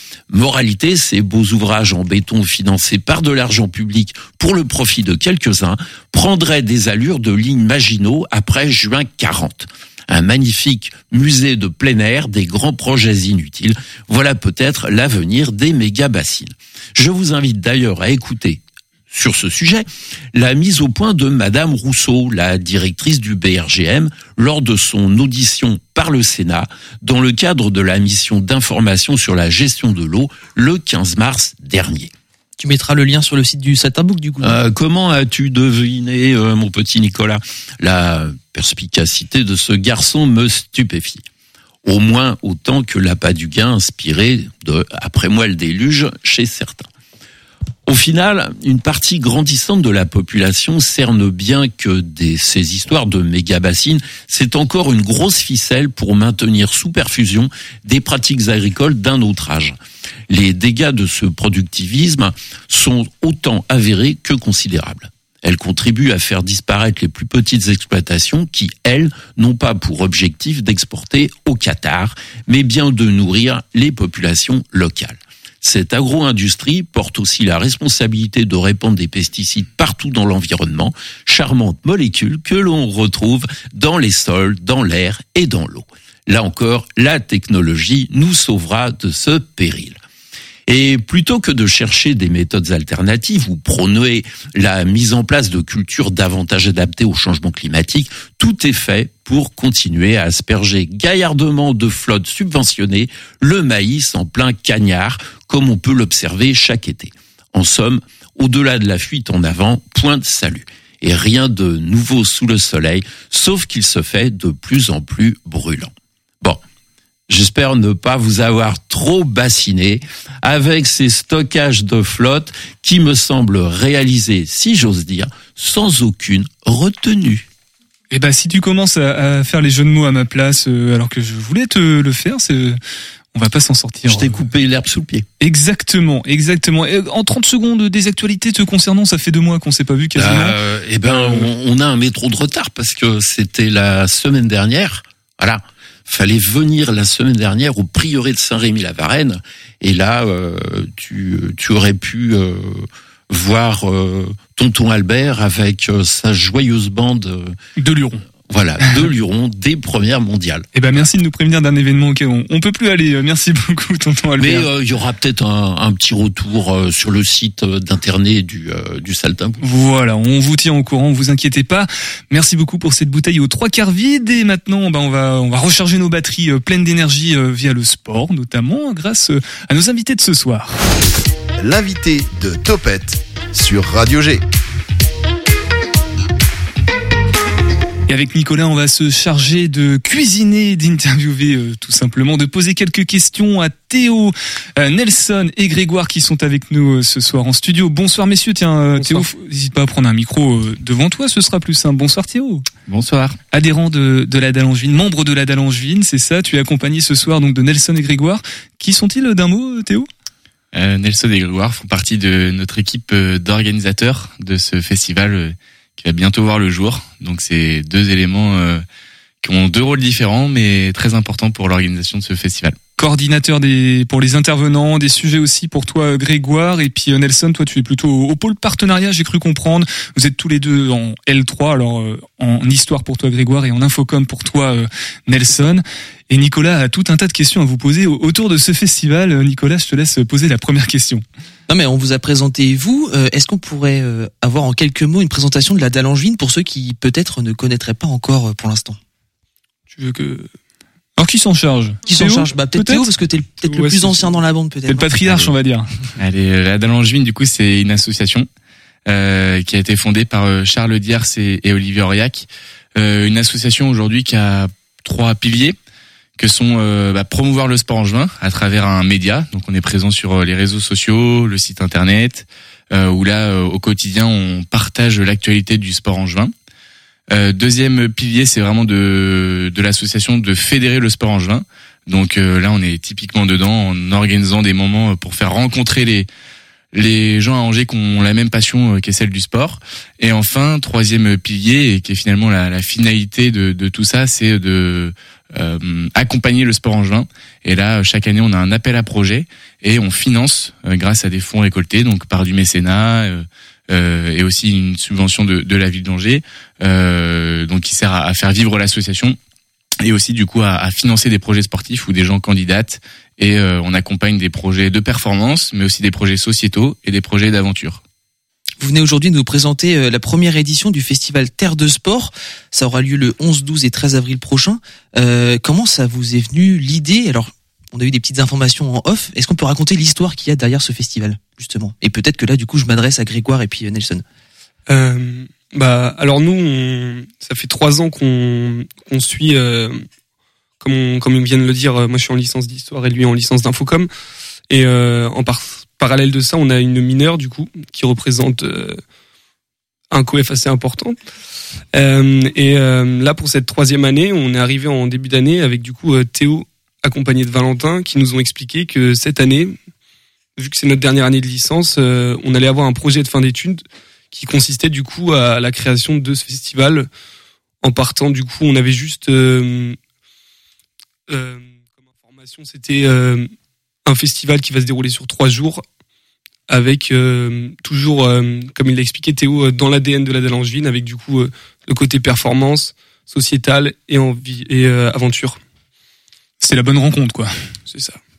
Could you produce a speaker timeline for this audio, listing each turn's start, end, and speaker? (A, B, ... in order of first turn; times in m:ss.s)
0:00.3-0:32.1 A
0:32.6-0:34.6 B
0:34.4-0:41.2 A
0:41.8-0:46.9 A
0:47.8-0:59.8 A
1:00.3-1:30.0 A
1:30.7-1:56.6 A
1:57.3-2:07.5 A
2:08.1-2:12.8 C
2:13.3-2:14.5 C
2:14.0-2:15.2 A
2:15.4-2:21.5 C
2:20.1-2:37.6 A
2:37.8-2:38.2 C
2:38.5-2:40.6 A
2:40.7-2:44.7 C
2:44.4-2:49.6 A
2:49.6-3:00.8 C
3:01.6-3:04.4 D
3:08.1-3:22.6 C
3:22.9-3:23.4 E
3:23.5-3:30.1 C
3:30.7-3:38.8 E
3:39.4-3:42.8 E
3:43.0-4:01.2 C
4:01.7-4:09.0 B
4:09.9-4:10.5 F
4:11.2-4:13.1 C
4:12.0-4:15.5 B
4:14.9-4:15.9 C
4:16.2-4:18.5 E
4:19.0-4:25.8 E
4:26.4-4:36.5 E
4:37.3-4:46.3 E
4:46.9-5:09.4 E
5:10.0-5:18.0 E
5:18.8-5:34.2 B
5:34.9-5:40.0 F
5:40.8-5:44.1 F
5:44.7-5:49.0 F
5:50.1-5:51.2 F
5:51.9-5:59.8 F
6:00.6-6:07.1 F
6:07.8-6:10.0 F
6:11.3-6:13.5 F
6:14.1-6:15.8 F
6:16.7-6:25.6 F
6:26.6-6:27.5 C
6:27.9-6:28.2 F